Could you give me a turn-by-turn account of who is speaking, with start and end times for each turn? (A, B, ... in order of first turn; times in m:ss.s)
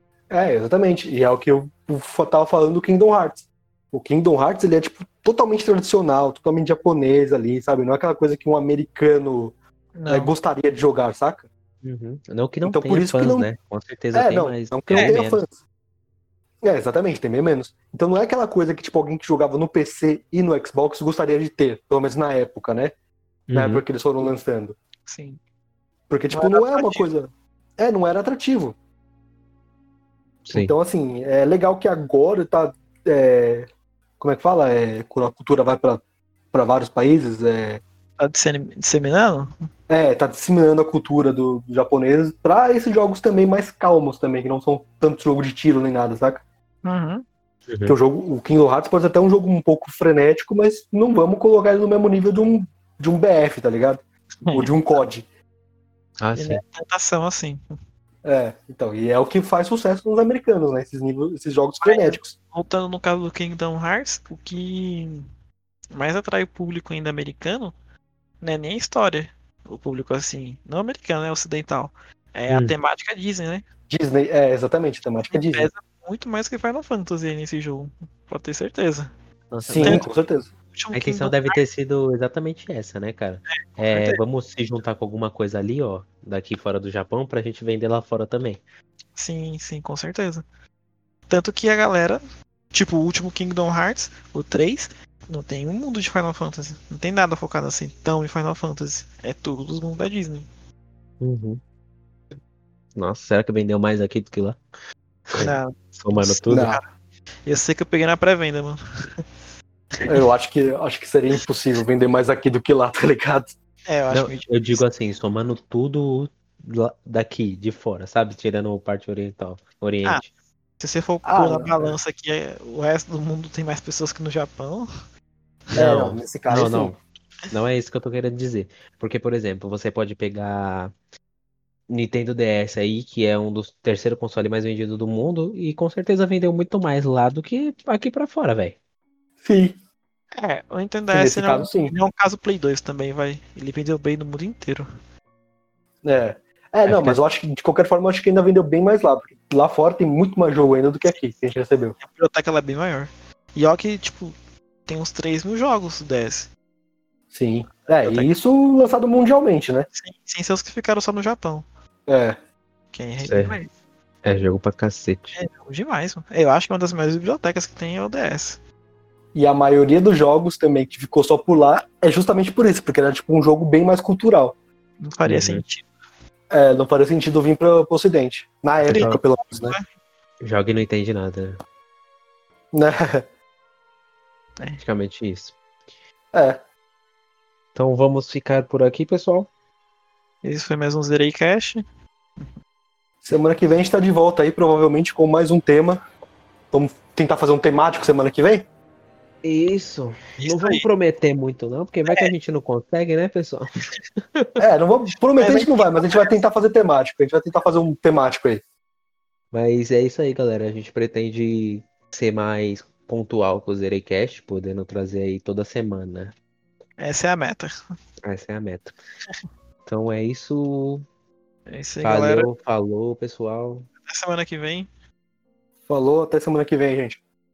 0:00.3-0:09.5 A
0:10.0-0:10.3 B
0:10.1-0:11.4 A
0:11.8-0:15.4 C
0:12.6-0:13.5 A
0:14.1-0:15.5 A
0:16.6-0:22.9 A
0:23.5-0:23.8 C
0:23.5-0:24.8 A
0:25.0-0:25.4 B
0:26.1-0:28.8 A
0:26.3-0:27.1 B
0:30.4-0:30.7 C
0:30.5-0:33.7 A
0:34.2-0:37.8 A
0:38.2-0:39.6 B
0:39.9-0:46.4 A
0:46.8-0:47.2 B
0:47.7-0:48.0 C
0:47.9-0:54.0 A
0:54.4-0:54.7 B
0:54.5-0:55.2 A
0:56.2-0:56.6 C
0:56.4-0:57.6 B
0:58.2-1:02.3 A
1:01.8-1:05.3 B
1:05.9-1:07.7 B
1:08.4-1:13.6 B
1:12.5-1:12.7 C
1:13.9-1:15.7 A
1:15.3-1:19.1 B
1:19.5-1:20.1 C
1:19.6-1:20.5 A
1:19.8-1:20.1 B
1:20.7-1:21.6 B
1:20.9-1:28.6 C
1:23.7-1:24.2 B
1:29.2-1:30.4 B
1:31.3-1:40.5 B
1:41.2-1:41.6 C
1:43.0-1:44.6 C
1:45.3-1:46.7 C
1:45.4-1:46.9 B
1:46.5-1:46.8 A
1:47.4-1:49.2 B
1:50.1-1:53.5 A
1:53.8-1:54.8 B
1:54.1-2:00.3 C
2:00.8-2:04.9 B
2:01.2-2:01.9 A
2:05.7-2:07.0 C
2:05.8-2:07.0 A
2:07.5-2:10.9 C
2:11.9-2:18.8 C
2:19.4-2:19.8 A
2:20.3-2:24.9 B
2:21.1-2:21.9 A
2:26.0-2:32.0 A
2:26.8-2:27.2 C
2:32.0-2:34.3 B
2:34.9-2:36.5 B
2:37.3-2:39.9 A
2:37.8-2:38.3 B
2:39.9-2:41.6 B
2:42.1-2:42.4 A
2:42.9-2:43.7 B
2:43.2-2:43.6 C
2:44.2-2:45.4 C
2:45.3-2:48.6 B
2:49.3-2:54.6 A
2:55.0-2:55.9 B
2:55.2-2:55.6 C
2:56.5-2:59.8 A
2:58.8-2:59.2 C
2:58.9-2:59.8 B
3:00.4-3:01.6 C
3:02.7-3:03.2 A
3:04.8-3:05.5 C
3:06.3-3:06.6 A
3:07.7-3:09.5 C
3:10.4-3:11.8 B
3:13.2-3:16.0 A
3:16.7-3:18.7 A
3:19.4-3:23.8 C
3:20.4-3:20.8 B
3:24.6-3:28.6 A
3:25.4-3:26.4 B
3:29.5-3:36.3 C
3:37.0-3:37.7 B
3:38.2-3:38.9 C
3:39.8-3:41.0 C
3:41.6-3:42.6 B
3:42.0-3:43.9 C
3:44.0-3:44.9 B
3:45.9-3:47.2 A